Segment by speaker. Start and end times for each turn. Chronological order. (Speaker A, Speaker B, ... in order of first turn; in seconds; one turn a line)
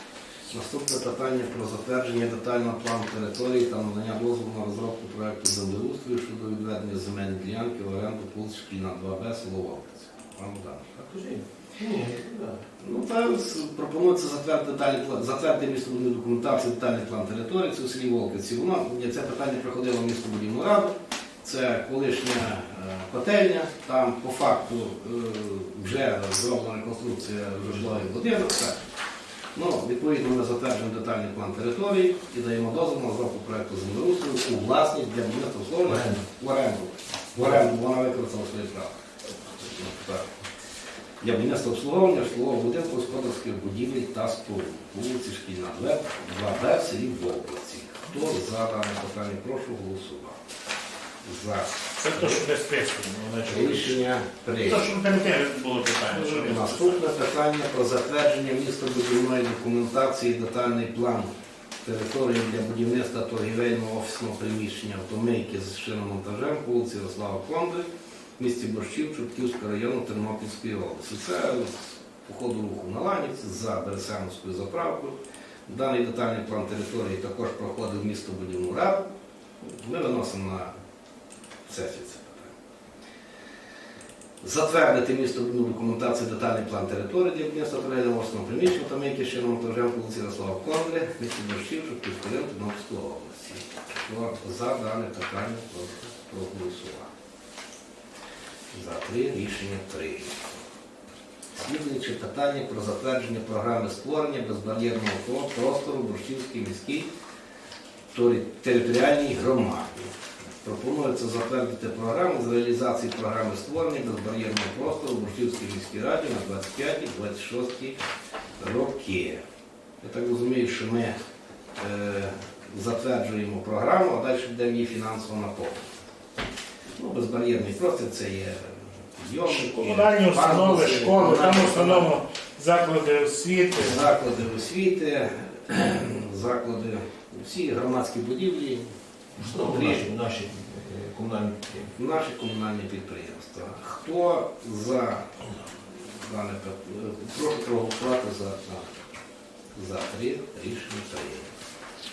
Speaker A: 0.5-11.1
Speaker B: 11.1-12.6
Speaker A: 12.8-28.8
Speaker A: 29.6-39.0
Speaker B: 35.9-36.2
Speaker A: 39.5-40.2
Speaker A: 41.2-50.4
Speaker A: 51.2-52.4
Speaker C: 52.0-54.0
Speaker A: 53.5-54.9
Speaker C: 54.7-56.9
Speaker A: 56.1-61.3
Speaker A: 61.8-75.2
Speaker A: 75.7-79.0
Speaker A: 79.6-80.7
Speaker A: 81.7-82.5
Speaker A: 84.4-97.1
Speaker A: 98.7-100.6
Speaker A: 101.5-107.1
Speaker A: 108.1-118.0
Speaker A: 118.6-119.4
Speaker A: 120.0-121.2
Speaker A: 121.8-125.9
Speaker A: 127.0-132.1
Speaker C: 129.5-134.0
Speaker A: 133.8-138.8
Speaker B: 139.4-141.9
Speaker A: 139.5-140.1
Speaker A: 142.0-145.3
Speaker A: 145.9-148.9
Speaker A: 149.8-151.5